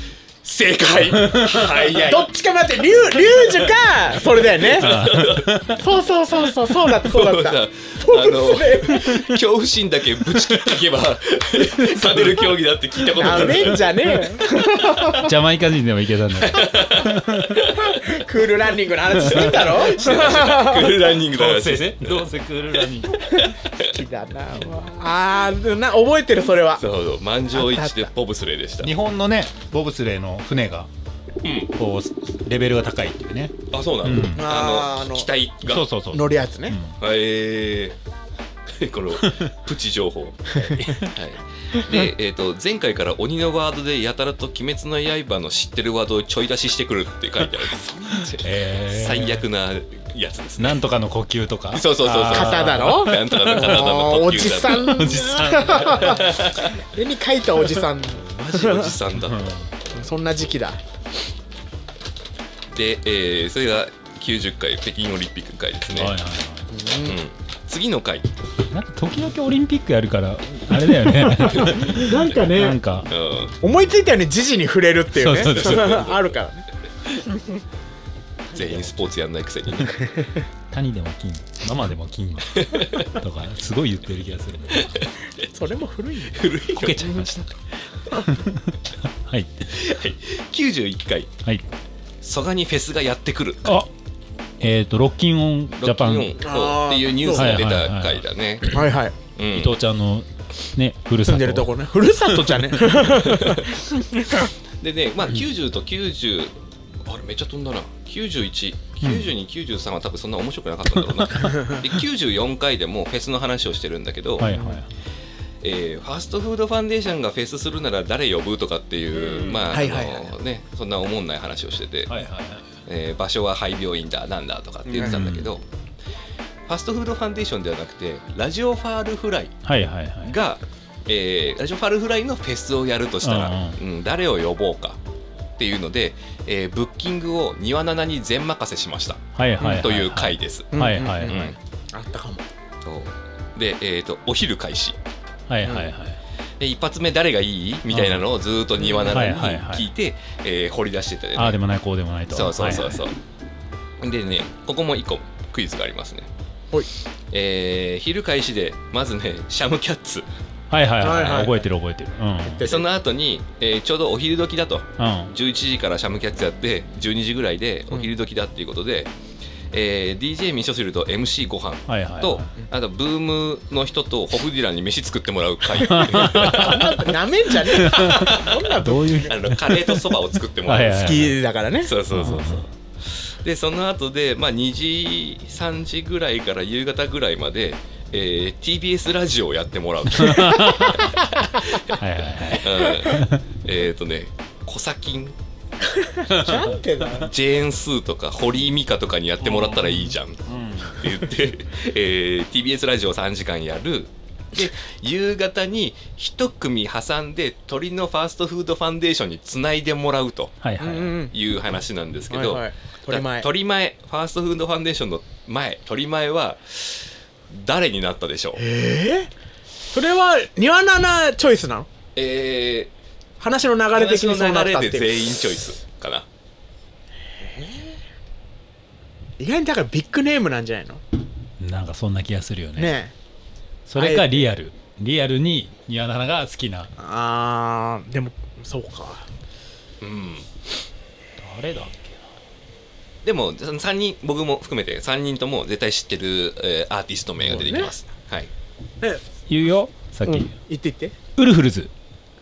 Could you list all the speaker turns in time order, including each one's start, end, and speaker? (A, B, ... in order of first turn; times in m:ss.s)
0:00.4-0:02.3 A
0:01.0-0:01.9 B
0:01.8-0:05.0 C
0:04.4-0:05.8 A
0:04.8-0:05.8 B
0:05.7-0:09.4 C
0:07.0-0:13.9 A
0:13.2-0:15.3 C
0:13.3-0:13.8 B
0:15.1-0:17.7 B
0:16.4-0:18.1 A
0:17.9-0:21.0 C
0:19.2-0:20.4 B
0:19.8-0:22.3 A
0:21.3-0:23.4 B
0:23.5-0:26.8 C
0:26.8-0:28.9 A
0:27.5-0:28.1 C
0:28.8-0:30.9 B
0:31.4-0:31.7 A
0:31.7-0:34.5 B
0:33.7-0:35.9 A
0:34.4-0:35.3 C
0:35.7-0:37.0 B
0:36.1-0:36.8 C
0:37.0-0:38.0 A
0:38.7-0:50.8 A
0:39.2-0:39.5 B
0:40.7-0:41.1 B
0:47.8-0:48.4 C
0:48.4-0:49.4 B
0:50.6-0:53.6 B
0:51.7-0:55.2 A
0:52.3-0:59.0 C
0:55.0-0:56.3 B
0:55.9-0:56.8 A
0:58.2-0:59.4 A
0:59.2-0:59.7 B
0:59.9-1:00.8 C
1:02.7-1:06.2 A
1:05.9-1:06.7 B
1:06.7-1:07.2 C
1:07.1-1:08.3 A
1:08.7-1:13.1 B
1:11.3-1:12.8 C
1:11.5-1:12.2 A
1:13.1-1:13.6 A
1:13.6-1:16.7 C
1:15.2-1:16.0 B
1:15.4-1:16.3 A
1:18.5-1:20.3 A
1:20.7-1:24.9 B
1:22.5-1:23.1 A
1:24.7-1:25.1 A
1:25.5-1:26.5 C
1:26.3-1:27.3 A
1:26.7-1:27.5 B
1:28.2-1:29.7 B
1:29.7-1:31.3 A
1:32.2-1:33.8 A
1:34.6-1:36.4 B
1:35.7-1:38.8 A
1:36.4-1:37.7 C
1:37.3-1:38.8 B
1:38.7-1:39.2 C
1:39.4-1:39.8 A
1:39.5-1:41.7 B
1:41.2-1:44.4 C
1:43.2-1:43.7 A
1:44.8-1:46.5 A
1:47.0-1:54.6 A
1:49.0-1:49.3 B
1:54.4-1:54.9 B
1:54.4-1:54.8 C
1:55.6-2:02.1 A
1:59.3-1:59.7 B
1:59.7-2:00.3 C
2:02.1-2:02.6 B
2:02.9-2:05.6 A
2:04.9-2:05.5 B
2:05.0-2:05.2 C
2:06.7-2:09.6 A
2:09.6-2:10.3 B
2:10.2-2:15.0 A
2:13.2-2:13.8 B
2:15.6-2:21.6 A
2:19.4-2:21.4 B
2:20.7-2:22.4 C
2:22.8-2:25.0 A
2:25.5-2:26.2 B
2:26.6-2:31.6 A
2:27.9-2:28.2 B
2:29.0-2:29.9 B
2:31.4-2:33.0 B
2:32.3-2:33.2 A
2:34.0-2:36.3 A
2:37.3-2:40.3 A
2:40.7-2:42.6 B
2:41.0-2:41.6 C
2:41.0-2:41.5 A
2:42.4-2:42.9 C
2:42.6-2:49.1 A
2:45.0-2:45.3 B
2:49.7-2:57.0 A
2:51.9-2:52.5 B
2:55.8-2:56.8 B
2:56.2-2:59.4 C
2:57.7-3:00.0 B
2:57.8-2:58.7 A
2:59.3-3:01.3 A
3:00.6-3:01.4 B
3:00.9-3:01.9 C
3:01.8-3:12.0 A
3:02.1-3:02.7 B
3:10.1-3:11.2 B
3:11.9-3:13.4 B
3:12.6-3:15.4 A
3:16.2-3:17.3 C
3:16.3-3:16.7 B
3:17.2-3:30.6 A
3:19.4-3:21.0 B
3:30.6-3:31.2 B
3:30.8-3:31.3 C
3:31.2-3:38.6 A
3:32.3-3:33.5 C
3:38.6-3:39.3 C
3:39.9-3:41.9 C
3:42.2-3:42.9 A
3:43.4-3:45.3 C
3:43.9-3:46.2 A
3:47.4-3:48.0 C
3:49.4-3:51.0 C
3:51.6-3:52.9 B
3:52.8-3:53.1 C
3:53.9-3:56.9 B
3:54.0-3:54.5 C
3:57.0-3:59.3 C
4:00.0-4:00.5 A
4:01.4-4:02.2 B
4:03.2-4:08.5 A
4:07.4-4:07.9 C
4:09.5-4:10.6 B
4:10.3-4:11.2 C
4:11.4-4:11.9 B